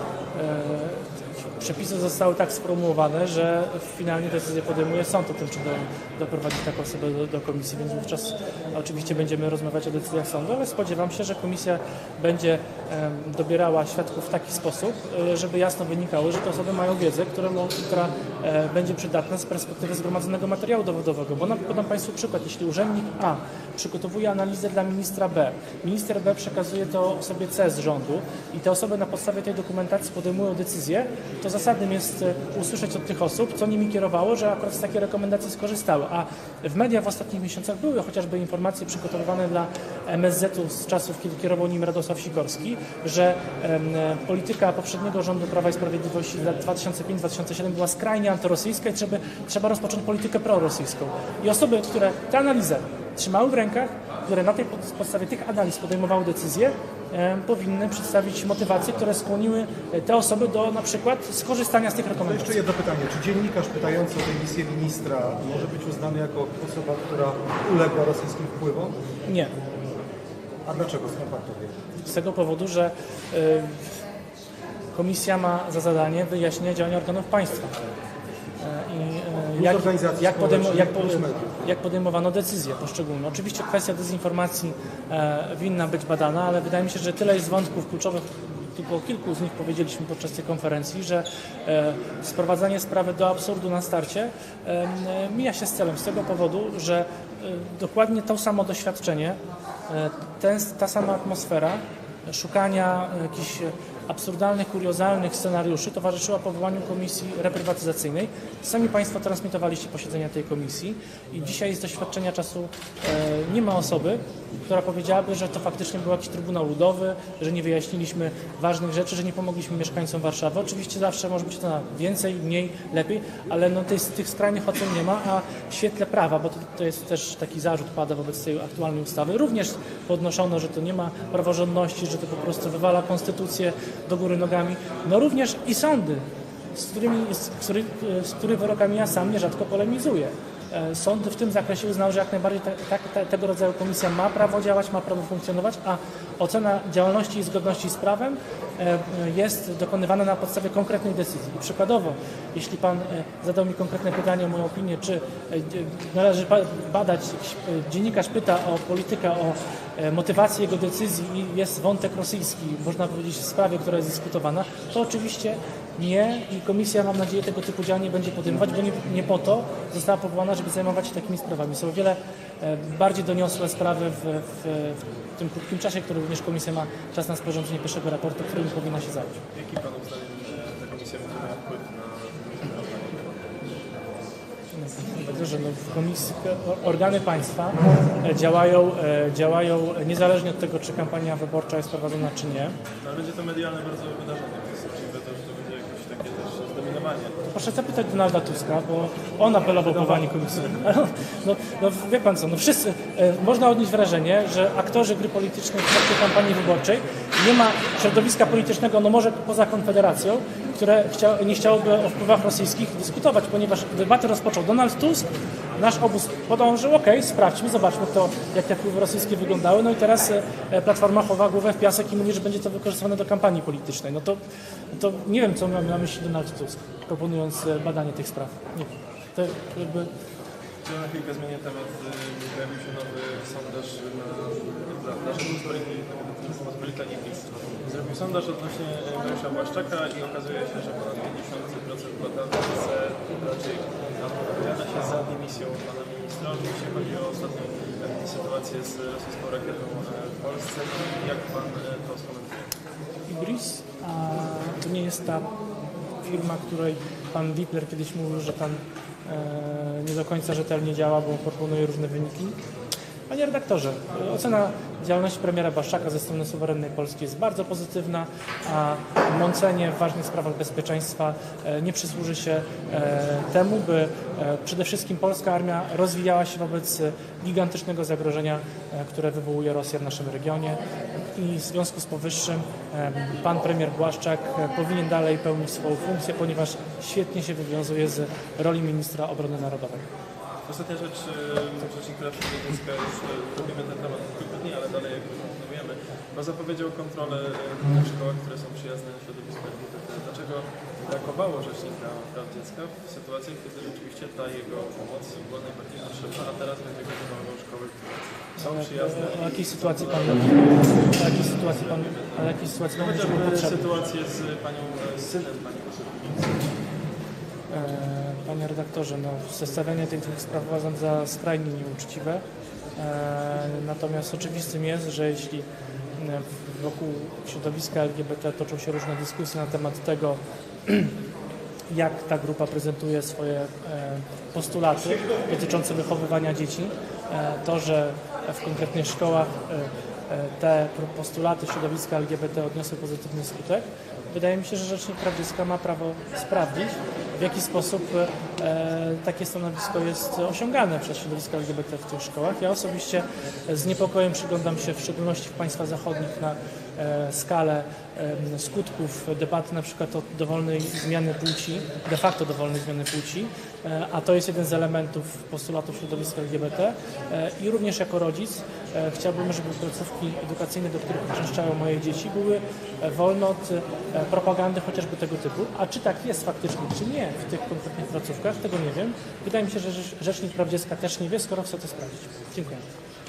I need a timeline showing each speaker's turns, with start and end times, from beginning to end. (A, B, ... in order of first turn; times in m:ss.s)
0:00.4-1:02.6 A
1:02.2-1:09.0 B
1:09.3-1:09.5 A
1:10.6-1:11.7 B
1:12.0-1:13.9 A
1:14.9-1:17.8 A
1:18.6-2:59.3 A
1:19.6-1:21.6 B
2:59.5-3:03.6 C
3:04.7-3:12.8 A
3:13.0-3:17.4 C
3:17.5-3:44.4 A
3:44.9-3:50.1 A
3:50.8-4:12.7 C
4:13.3-4:15.5 A
4:16.2-4:22.6 A
4:23.3-4:40.8 A
4:41.4-4:50.1 A
4:50.7-5:16.8 C
5:08.6-5:14.0 A
5:17.7-5:22.4 A
5:23.0-5:31.2 A
5:31.9-6:22.8 A